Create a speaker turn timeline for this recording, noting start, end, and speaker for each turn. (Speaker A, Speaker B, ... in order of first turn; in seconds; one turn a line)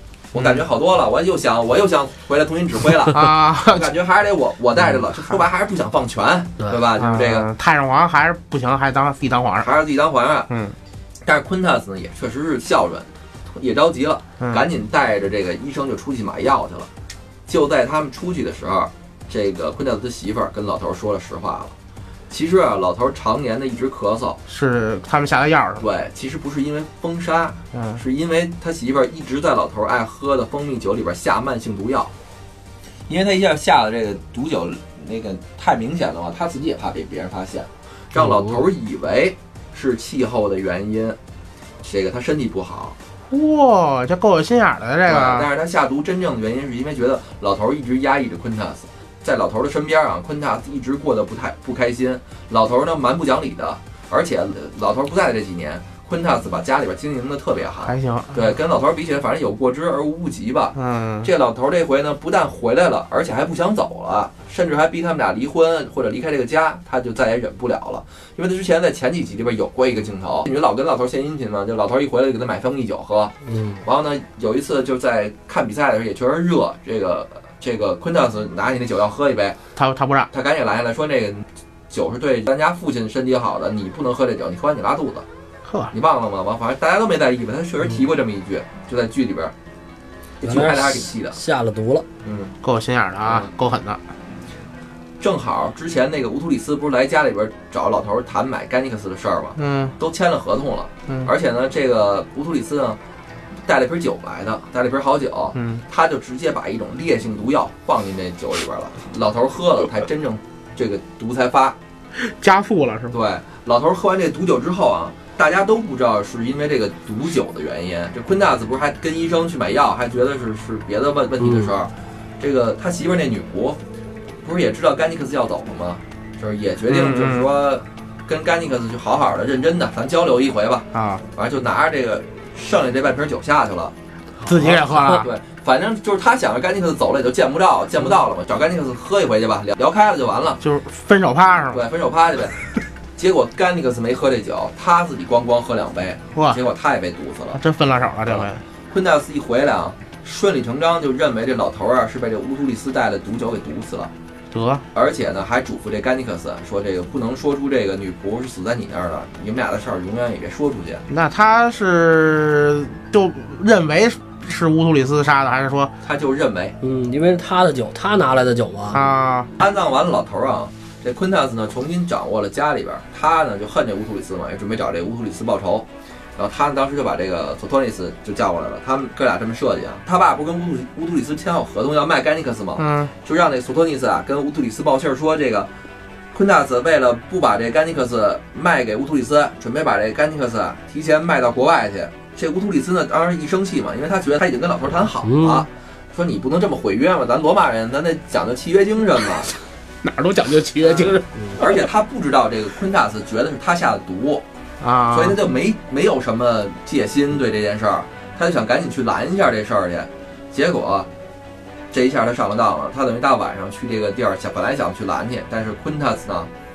Speaker A: 0.3-7.5
Speaker B: 0.3-0.6
Speaker B: 3.1-3.9
Speaker B: 7.0-9.7
Speaker A: 9.6-10.5
Speaker B: 10.5-10.7
Speaker A: 11.2-16.9
Speaker A: 17.5-21.7
Speaker A: 22.3-24.4
Speaker B: 24.5-25.8
Speaker A: 25.8-32.1
Speaker B: 27.7-28.0
Speaker A: 33.1-41.2
Speaker C: 38.2-38.6
Speaker A: 41.8-43.0
Speaker B: 43.3-45.5
Speaker A: 45.0-79.6
Speaker B: 57.8-58.5
Speaker B: 60.7-61.3
Speaker C: 73.5-73.8
Speaker B: 79.8-80.3
Speaker A: 80.3-85.2
Speaker B: 85.7-85.9
Speaker A: 85.9-89.5
Speaker A: 90.4-91.4
Speaker C: 90.4-92.0
Speaker A: 92.2-92.5
Speaker B: 92.6-94.0
Speaker A: 93.2-93.5
Speaker A: 95.2-103.0
Speaker B: 99.6-99.9
Speaker A: 103.6-111.8
Speaker B: 105.5-105.8
Speaker B: 112.2-113.2
Speaker A: 113.1-123.8
Speaker C: 121.4-121.7
Speaker A: 124.4-133.9
Speaker B: 126.9-127.5
Speaker B: 130.9-131.2
Speaker B: 134.4-135.3
Speaker A: 134.5-140.6
Speaker B: 140.6-141.8
Speaker A: 141.7-142.6
Speaker A: 143.2-147.6
Speaker B: 146.3-146.6
Speaker B: 147.5-148.6
Speaker A: 148.2-154.1
Speaker B: 154.5-154.8
Speaker A: 154.9-161.0
Speaker B: 161.1-165.9
Speaker A: 166.0-166.8
Speaker C: 166.8-169.0
Speaker B: 168.9-169.5
Speaker A: 169.6-185.7
Speaker B: 182.8-183.1
Speaker A: 186.3-199.5
Speaker C: 195.2-195.7
Speaker B: 200.0-201.2
Speaker A: 200.8-204.4
Speaker B: 204.8-205.4
Speaker A: 205.1-211.1
Speaker A: 211.9-216.5